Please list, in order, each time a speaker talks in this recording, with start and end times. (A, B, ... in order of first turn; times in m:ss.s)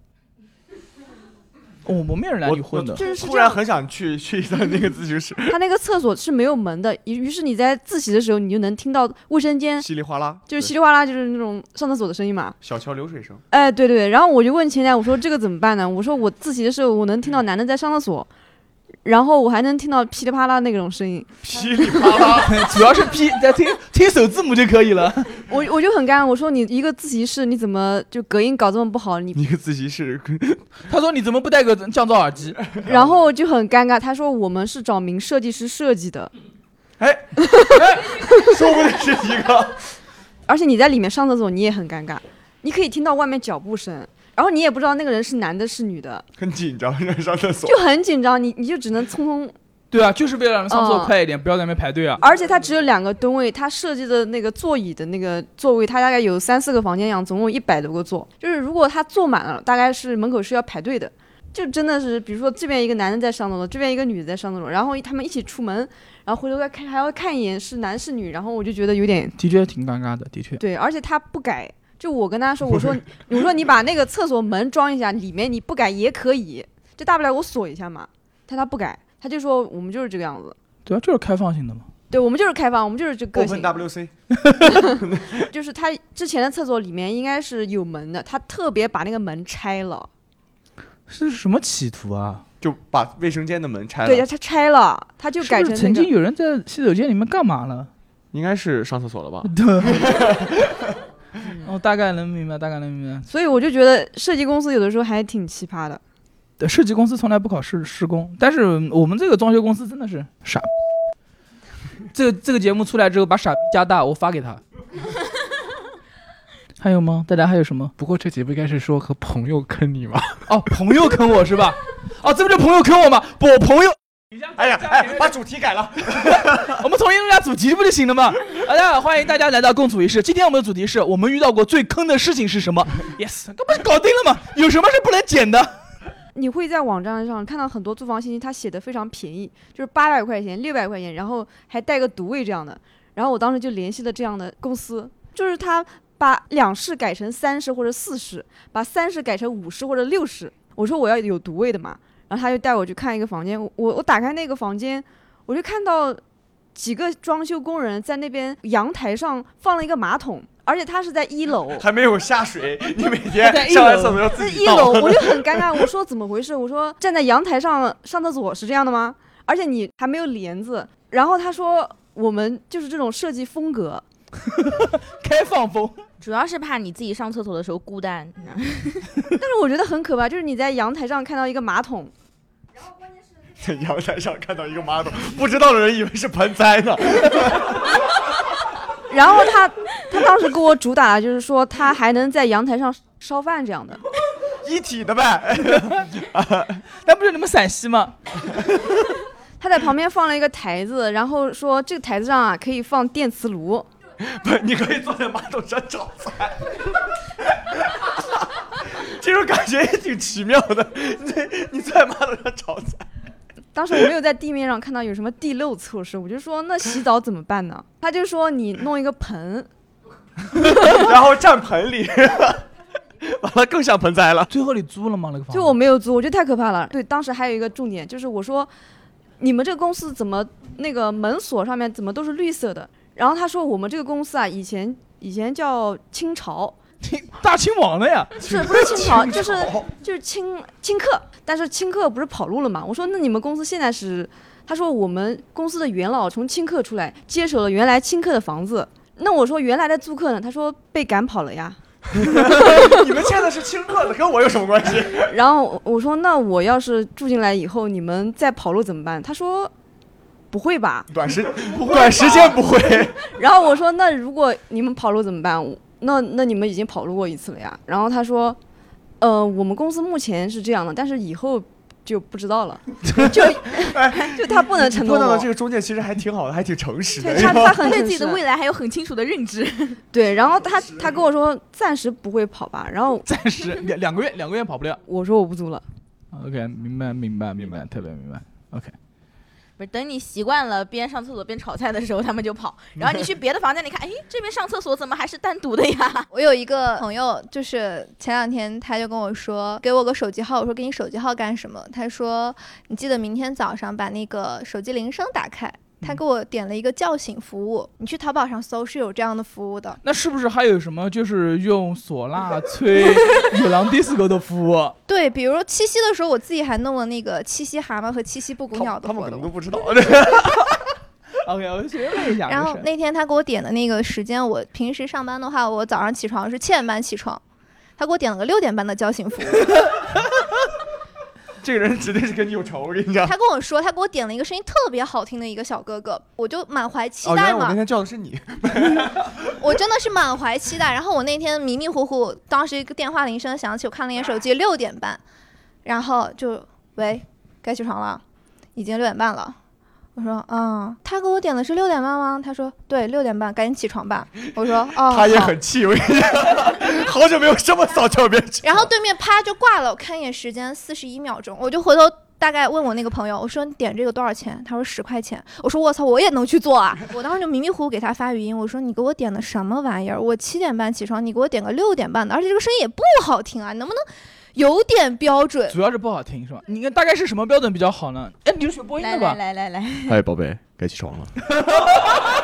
0:01.8-0:03.0 A
0:02.4-0:05.6 B
0:03.0-0:03.6 C
0:05.5-0:09.9 C
0:09.8-0:10.7 B
0:10.5-0:12.6 C
0:12.6-0:13.4 B
0:13.5-0:18.3 C
0:19.0-0:21.3 C
0:21.4-0:22.7 B
0:22.1-0:25.4 A
0:25.5-0:29.4 C
0:29.3-0:30.6 B
0:30.9-0:32.6 A
0:32.6-0:33.2 B
0:32.8-0:36.3 C
0:37.0-0:39.8 B
0:40.4-0:46.2 C
0:46.4-0:47.8 B
0:47.6-0:49.5 C
0:49.9-0:52.2 A
0:50.7-0:51.1 C
0:52.2-1:09.3 C
1:09.4-1:10.6 A
1:10.6-1:20.6 C
1:20.8-1:21.9 A
1:22.1-1:23.8 C
1:23.3-1:24.1 B
1:24.4-1:24.8 A
1:24.7-1:25.4 B
1:25.5-1:30.1 C
1:31.1-1:32.4 A
1:32.6-1:34.3 B
1:34.0-1:36.1 C
1:35.4-1:37.9 A
1:38.3-1:40.9 B
1:39.4-1:40.2 A
1:41.6-1:43.3 A
1:43.3-1:46.0 C
1:46.6-1:50.7 A
1:52.1-1:54.6 A
1:56.8-1:57.9 A
1:58.0-1:59.9 D
2:00.5-2:05.3 A
2:04.5-2:06.8 B
2:06.1-2:15.8 A
2:16.3-2:36.2 C
2:36.7-2:41.8 C
2:41.7-2:45.9 B
2:43.4-2:44.2 A
2:44.2-2:54.0 C
2:54.5-2:56.0 A
2:56.2-2:59.1 E
2:59.4-3:02.1 C
3:03.5-3:08.0 B
3:09.1-3:14.0 C
3:14.6-3:16.8 B
3:17.0-3:18.1 A
3:18.5-3:18.8 B
3:19.6-3:23.9 C
3:24.2-3:33.1 B
3:33.7-3:39.7 C
3:40.7-3:42.7 B
3:43.2-3:44.5 B
3:44.5-3:45.8 A
3:45.5-3:48.7 C
3:49.4-3:56.8 C
3:57.0-3:58.4 A
3:58.4-3:59.9 B
3:58.4-4:13.0 C
4:12.1-4:15.4 B
4:15.2-4:19.7 C
4:20.5-4:21.1 C
4:21.1-4:23.3 B
4:21.7-4:22.6 C
4:23.3-4:28.6 C
4:29.2-4:35.5 C
4:33.4-4:38.0 B
4:37.2-4:38.4 C
4:37.4-4:40.0 E
4:40.1-4:43.2 C
4:43.2-4:45.0 A
4:45.1-4:45.8 C
4:46.3-4:48.9 A
4:49.8-4:56.3 E
4:56.3-5:10.0 F
5:10.0-5:15.0 A
5:15.1-5:19.5 F
5:18.7-5:20.8 B
5:21.4-5:22.9 A
5:22.5-5:27.4 F
5:28.0-5:29.8 F
5:31.6-5:33.4 B
5:33.2-5:37.8 F
5:37.2-5:39.5 B
5:39.6-5:45.2 F
5:45.8-5:48.2 F
5:48.8-5:49.6 F
5:50.2-5:55.5 F
5:55.0-5:58.9 B
5:58.6-6:14.0 F
6:14.5-6:15.8 F
6:15.7-6:19.4 A
6:19.0-6:20.2 E
6:20.1-6:21.3 B